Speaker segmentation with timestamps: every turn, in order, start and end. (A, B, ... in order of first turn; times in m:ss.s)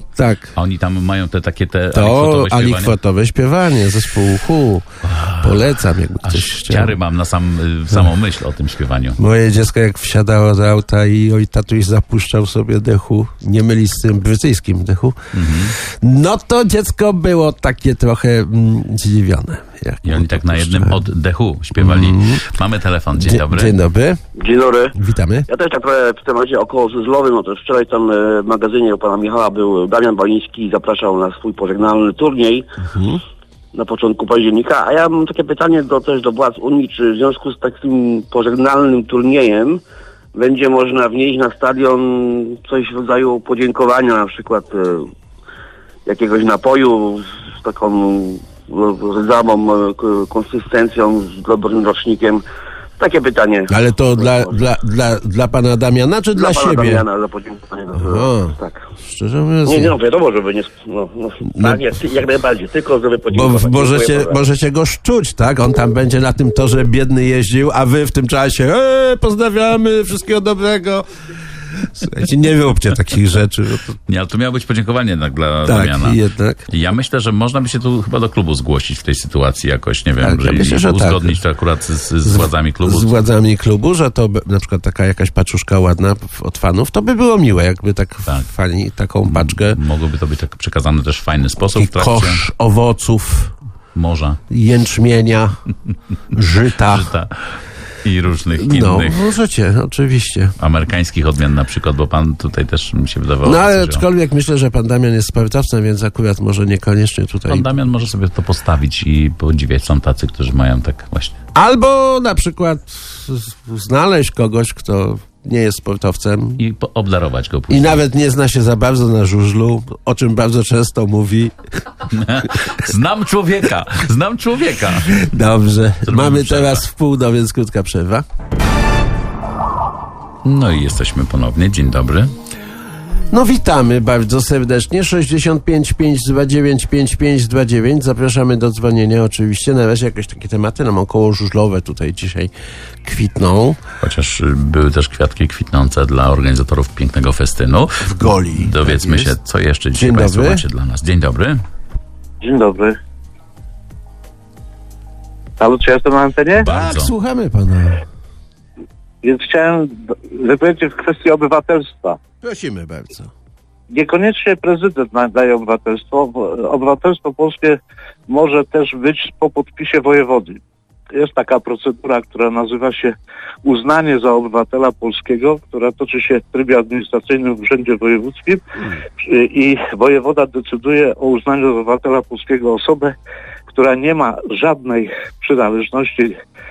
0:00.2-0:00.5 A
0:00.6-0:02.9 B
0:01.9-0:04.9 A
0:05.0-0:05.6 B
0:05.4-0:07.0 A
0:06.2-0:09.2 B
0:09.2-0:15.2 A
0:15.3-0:15.8 B
0:15.8-0:21.0 A
0:20.0-0:23.8 B
0:21.8-0:22.4 A
0:23.1-0:24.2 A
0:24.4-0:24.9 C
0:24.9-0:25.5 A
0:25.5-0:32.6 C
0:32.8-0:33.2 A
0:33.7-0:39.8 C
0:40.3-0:45.1 C
0:46.0-0:52.4 C
0:53.0-0:54.5 C
0:53.7-0:57.1 A
0:56.4-0:58.8 C
0:58.0-1:00.0 A
0:59.7-1:04.4 C
1:01.5-1:01.9 A
1:03.3-1:11.1 A
1:11.7-1:14.0 A
1:14.1-1:23.2 B
1:15.6-1:16.6 A
1:20.2-1:21.4 A
1:22.2-1:29.8 A
1:29.2-1:32.4 B
1:31.7-1:33.5 A
1:33.9-1:34.4 B
1:34.5-1:35.6 A
1:36.3-1:37.1 A
1:36.9-1:39.2 B
1:38.6-1:40.5 A
1:40.6-1:44.0 B
1:43.4-1:47.7 A
1:47.5-1:51.4 B
1:51.5-1:56.6 A
1:56.6-1:58.0 B
1:57.7-2:01.5 A
2:02.1-2:05.2 B
2:05.2-2:08.2 A
2:06.0-2:06.8 B
2:10.4-2:12.3 B
2:13.3-2:22.5 A
2:23.0-2:23.8 A
2:24.0-2:31.6 B
2:28.0-2:29.4 A
2:29.9-2:30.6 A
2:32.4-2:33.0 D
2:35.6-2:36.6 D
2:36.6-2:37.1 B
2:36.6-2:38.0 A
2:39.2-2:42.2 D
2:42.4-2:43.3 A
2:43.9-2:50.6 D
2:51.1-2:58.6 D
2:59.2-3:03.1 D
3:03.7-3:06.4 D